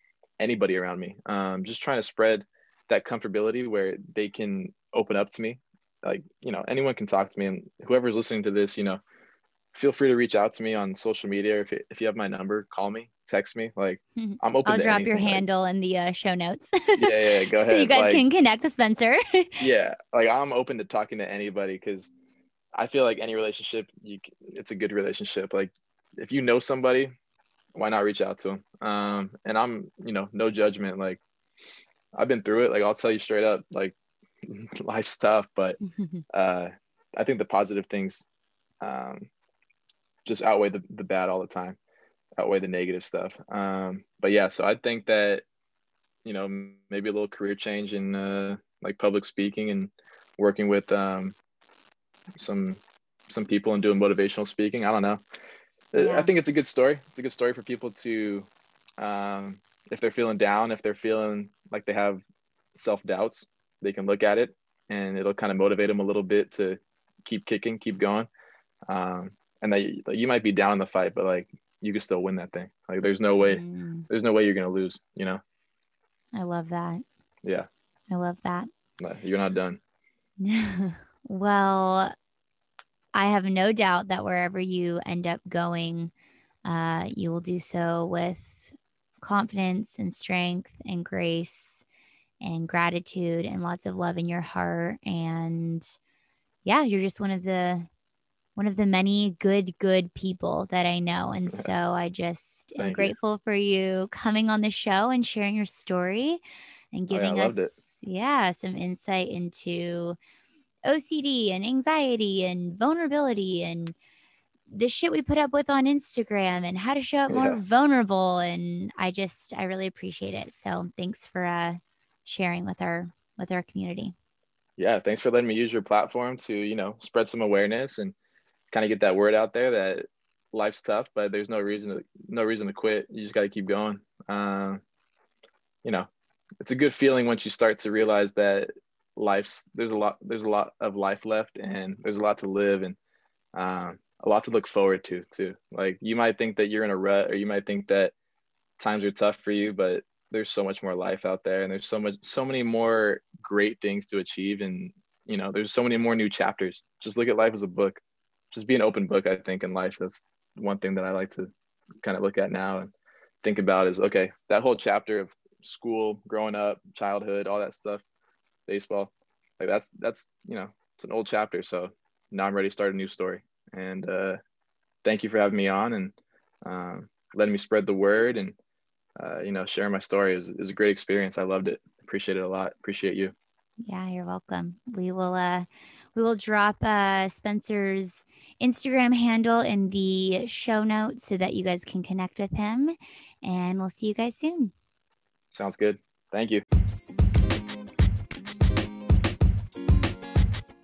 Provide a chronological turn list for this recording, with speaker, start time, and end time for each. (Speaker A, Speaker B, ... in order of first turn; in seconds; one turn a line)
Speaker A: 0.4-9.0
Speaker A: 9.7-15.4
Speaker B: 14.2-19.6
Speaker A: 17.0-18.2
Speaker A: 19.6-22.1
Speaker A: 22.8-27.1
Speaker A: 27.8-31.2
Speaker A: 32.1-35.8
Speaker B: 35.9-36.2
Speaker A: 36.3-38.2
Speaker A: 38.8-39.3
Speaker A: 40.3-41.8
Speaker A: 42.4-45.4
Speaker A: 46.2-51.4
Speaker A: 52.4-55.2
Speaker A: 55.9-62.2
Speaker B: 56.0-56.3
Speaker A: 62.8-68.3
Speaker A: 68.9-75.4
Speaker B: 73.4-74.1
Speaker B: 76.3-77.0
Speaker B: 78.1-78.7
Speaker A: 79.0-79.8
Speaker B: 80.4-82.1
Speaker B: 83.2-86.1
Speaker B: 86.7-91.8
Speaker B: 92.4-95.9
Speaker B: 96.6-97.9
Speaker B: 98.6-106.4
Speaker A: 102.8-103.2
Speaker B: 106.9-110.2
Speaker A: 107.1-107.7
Speaker B: 110.8-114.0
Speaker B: 114.7-124.1
Speaker A: 117.3-117.6
Speaker A: 124.8-128.1
Speaker A: 128.7-134.8
Speaker A: 135.8-136.1
Speaker A: 136.6-143.0
Speaker A: 143.6-148.1
Speaker A: 148.8-158.0
Speaker A: 158.5-161.5
Speaker A: 162.0-162.9
Speaker A: 163.4-168.0
Speaker A: 168.7-174.4
Speaker A: 175.0-176.1
Speaker A: 176.7-178.6
Speaker A: 179.2-183.3
Speaker B: 183.8-194.7
Speaker A: 195.5-196.6